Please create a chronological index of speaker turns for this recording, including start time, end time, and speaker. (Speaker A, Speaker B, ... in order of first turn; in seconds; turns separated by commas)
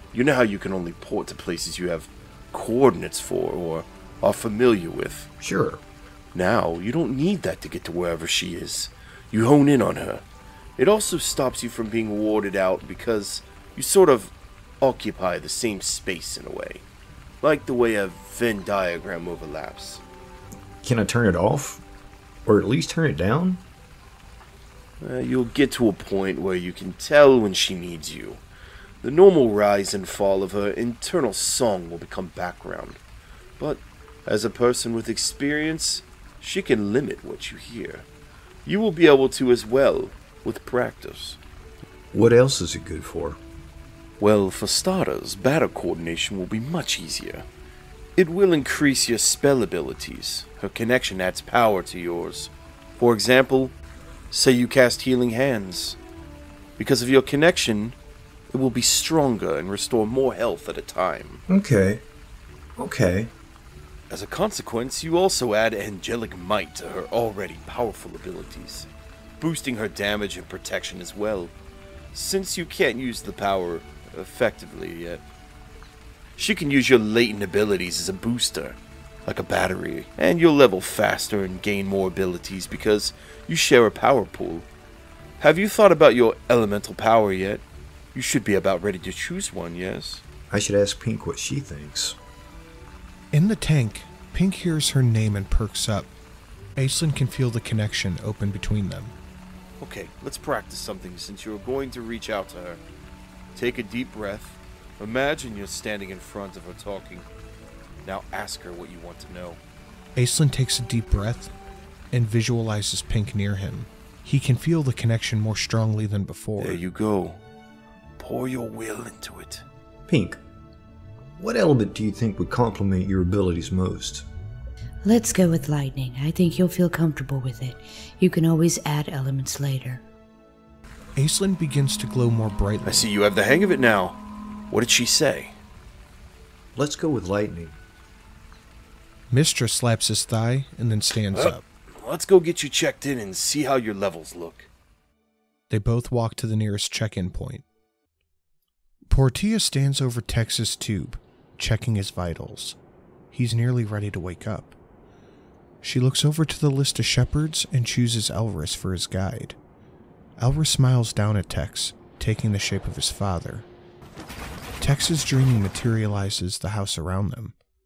Speaker A: 0.1-5.3, Speaker B: 5.4-5.8, Speaker A: 6.3-10.2, Speaker A: 10.8-16.9, Speaker A: 17.4-20.0, Speaker B: 20.8-21.8, Speaker B: 22.5-23.6, Speaker A: 25.0-28.4, Speaker A: 29.0-33.0, Speaker A: 33.6-38.1, Speaker A: 38.7-41.4, Speaker B: 42.1-43.4, Speaker A: 44.2-47.5, Speaker A: 48.2-53.7, Speaker A: 54.3-56.0, Speaker A: 56.8-58.0, Speaker A: 58.5-61.4, Speaker B: 61.5-62.0, Speaker B: 62.8-63.3, Speaker A: 64.1-68.9, Speaker A: 69.4-71.5, Speaker A: 72.1-75.2, Speaker A: 76.4-84.7, Speaker A: 85.4-90.2, Speaker B: 90.5-92.2, Speaker C: 93.3-96.1, Speaker C: 96.8-99.2, Speaker A: 99.8-102.8, Speaker A: 103.5-107.3, Speaker A: 108.0-109.6, Speaker C: 110.2-111.5, Speaker C: 112.1-116.8, Speaker A: 116.6-117.4, Speaker A: 118.2-119.6, Speaker B: 120.1-120.4, Speaker B: 121.4-124.2, Speaker D: 125.0-130.0, Speaker C: 131.2-133.1, Speaker A: 132.9-134.2, Speaker A: 134.7-135.6, Speaker B: 136.8-137.8, Speaker C: 139.3-141.7, Speaker A: 141.3-144.7, Speaker C: 145.7-147.7, Speaker C: 149.1-152.8, Speaker C: 153.3-154.8, Speaker C: 155.8-159.6, Speaker C: 160.4-163.7, Speaker C: 164.8-167.6